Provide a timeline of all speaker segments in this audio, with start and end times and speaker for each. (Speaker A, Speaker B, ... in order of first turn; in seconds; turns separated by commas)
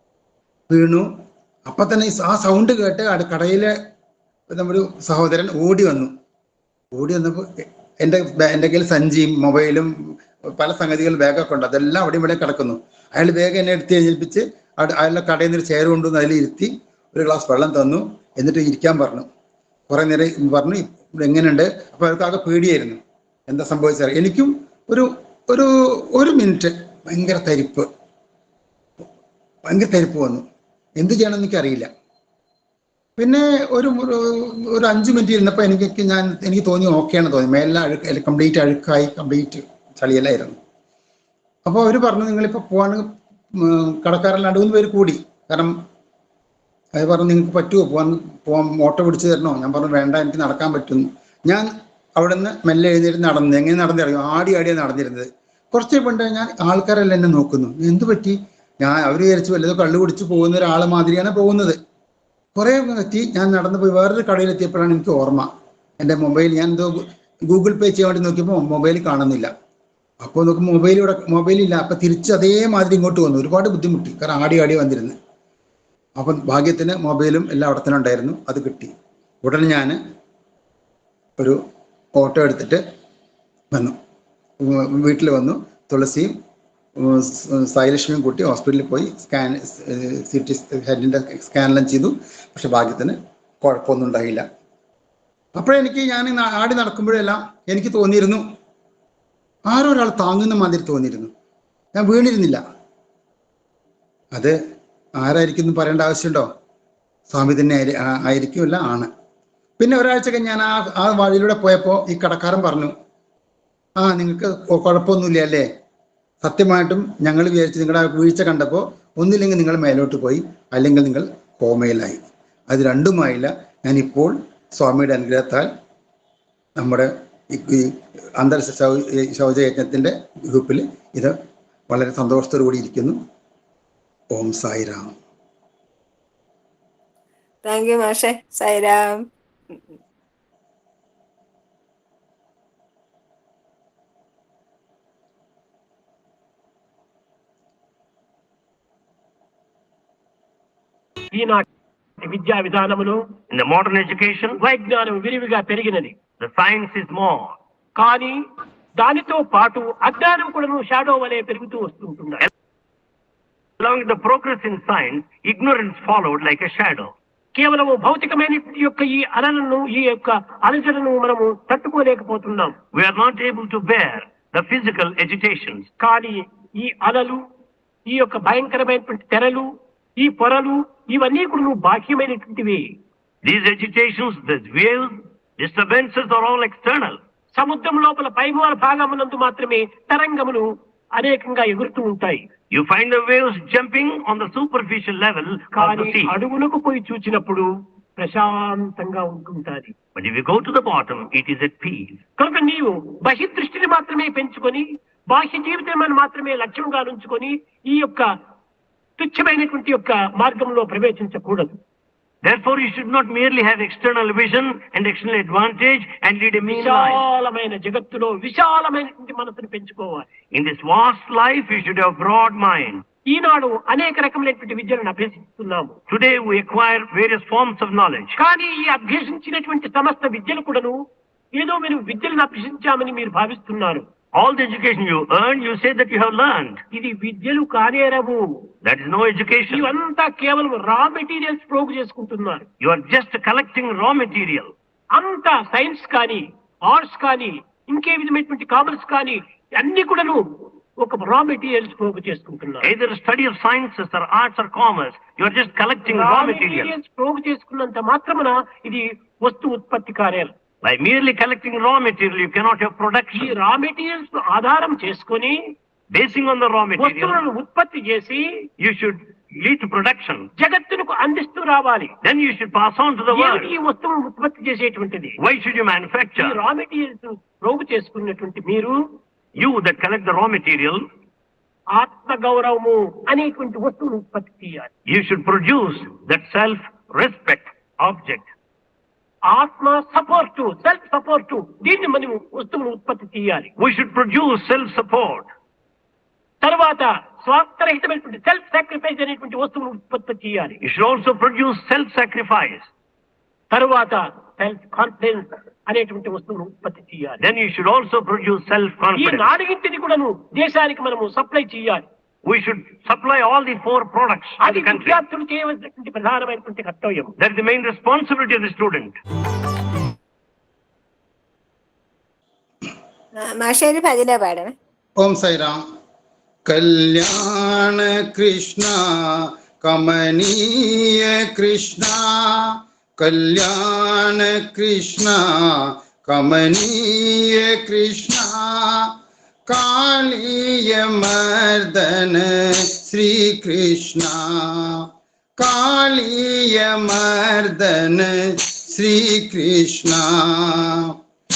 Speaker A: 0.7-1.1, Speaker A: 1.7-3.8, Speaker A: 4.5-6.1, Speaker A: 7.0-9.9, Speaker A: 10.6-19.3, Speaker A: 19.9-27.9, Speaker A: 29.7-30.4, Speaker A: 31.0-31.9, Speaker A: 33.2-40.6, Speaker A: 41.7-45.7, Speaker A: 47.0-61.8, Speaker A: 62.6-69.5, Speaker A: 70.2-75.2, Speaker A: 76.2-78.9, Speaker A: 79.4-80.0, Speaker A: 82.2-82.8, Speaker A: 84.6-86.3, Speaker A: 87.0-94.5, Speaker A: 95.6-98.4, Speaker A: 99.7-101.3, Speaker A: 102.0-102.6, Speaker A: 105.2-106.5, Speaker A: 107.3-109.1, Speaker A: 109.8-112.9, Speaker A: 114.0-115.7, Speaker A: 116.4-125.7, Speaker A: 126.8-131.4, Speaker A: 131.9-133.2, Speaker A: 134.3-135.2, Speaker B: 137.7-139.2, Speaker C: 151.3-151.7, Speaker C: 152.2-153.3, Speaker D: 153.5-154.6, Speaker C: 154.6-156.2, Speaker D: 156.4-157.6, Speaker C: 158.0-158.4, Speaker C: 159.0-162.5, Speaker D: 163.8-167.1, Speaker C: 167.6-172.8, Speaker D: 172.9-175.9, Speaker C: 176.0-177.4, Speaker C: 178.1-182.9, Speaker D: 183.4-187.2, Speaker C: 187.6-192.5, Speaker D: 192.7-196.3, Speaker C: 195.8-199.9, Speaker D: 200.2-202.2, Speaker C: 202.4-208.3, Speaker C: 209.2-211.8, Speaker D: 212.4-217.2, Speaker C: 216.7-220.3, Speaker D: 220.5-223.0, Speaker C: 223.3-226.0, Speaker D: 226.1-228.3, Speaker C: 228.4-231.0, Speaker C: 231.5-234.1, Speaker D: 234.3-236.8, Speaker C: 236.9-238.6, Speaker D: 238.8-239.9, Speaker C: 239.7-242.7, Speaker D: 242.8-244.7, Speaker C: 245.2-250.4, Speaker C: 251.0-252.9, Speaker D: 252.8-256.9, Speaker C: 256.1-260.5, Speaker D: 260.8-263.5, Speaker C: 263.3-265.6, Speaker D: 266.1-267.4, Speaker C: 267.0-268.4, Speaker D: 268.8-270.5, Speaker C: 270.6-272.2, Speaker D: 272.2-273.7, Speaker C: 273.3-275.4, Speaker D: 275.4-276.6, Speaker C: 276.4-279.0, Speaker D: 279.6-281.0, Speaker C: 281.9-284.9, Speaker D: 285.1-288.5, Speaker C: 289.5-293.7, Speaker D: 293.8-295.5, Speaker C: 296.6-300.8, Speaker D: 300.8-302.9, Speaker C: 303.7-307.4, Speaker D: 307.4-309.6, Speaker C: 309.2-312.0, Speaker D: 312.5-315.2, Speaker C: 314.6-317.4, Speaker D: 317.4-319.2, Speaker B: 323.4-324.7, Speaker A: 325.2-325.8, Speaker A: 326.7-339.1, Speaker A: 339.7-345.0, Speaker A: 345.6-351.1